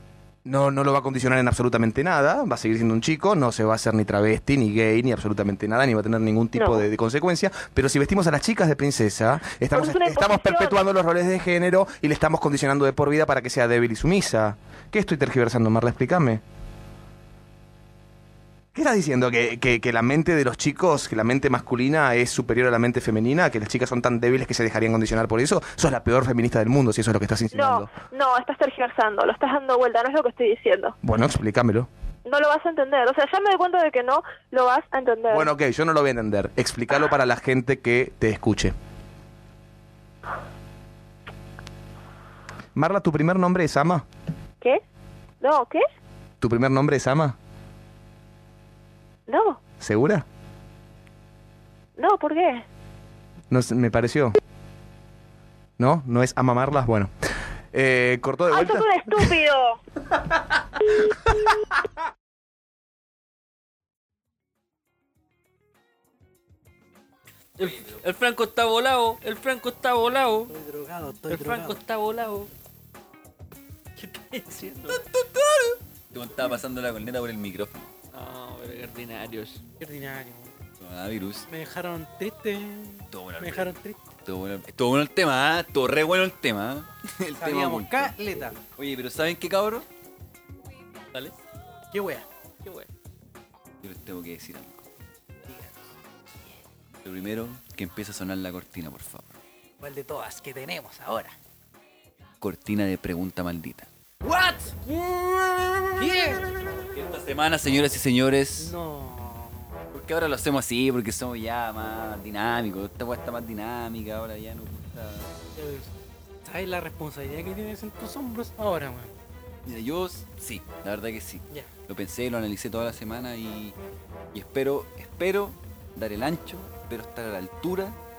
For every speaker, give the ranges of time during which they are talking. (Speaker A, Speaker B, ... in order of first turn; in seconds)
Speaker A: 0.5-16.4, 18.7-27.9, 31.0-31.9, 35.3-38.8, 42.8-44.0, 46.4-47.4, 49.8-50.2, 53.5-54.4, 55.8-57.1, 57.7-59.3
Speaker B: 6.6-6.9, 9.8-10.8, 27.5-31.0, 32.3-35.5, 45.4-45.8, 49.3-49.6, 52.0-52.6, 58.5-59.8
Speaker C: 67.6-70.5, 71.3-72.5, 74.0-75.1, 78.1-79.6, 92.6-92.9
Speaker D: 67.7-68.0, 74.9-77.9, 80.8-81.5, 83.1-88.2, 88.8-89.9, 93.8-94.9, 97.0-99.4, 102.4-103.9, 105.5-108.8, 109.9-115.4, 119.7-123.8, 124.3-128.0
Speaker E: 70.5-71.8, 79.8-80.5, 81.5-84.1, 87.4-88.6, 91.9-92.3, 95.5-95.8, 99.8-101.4, 104.2-106.5, 108.6-109.8, 115.5-119.1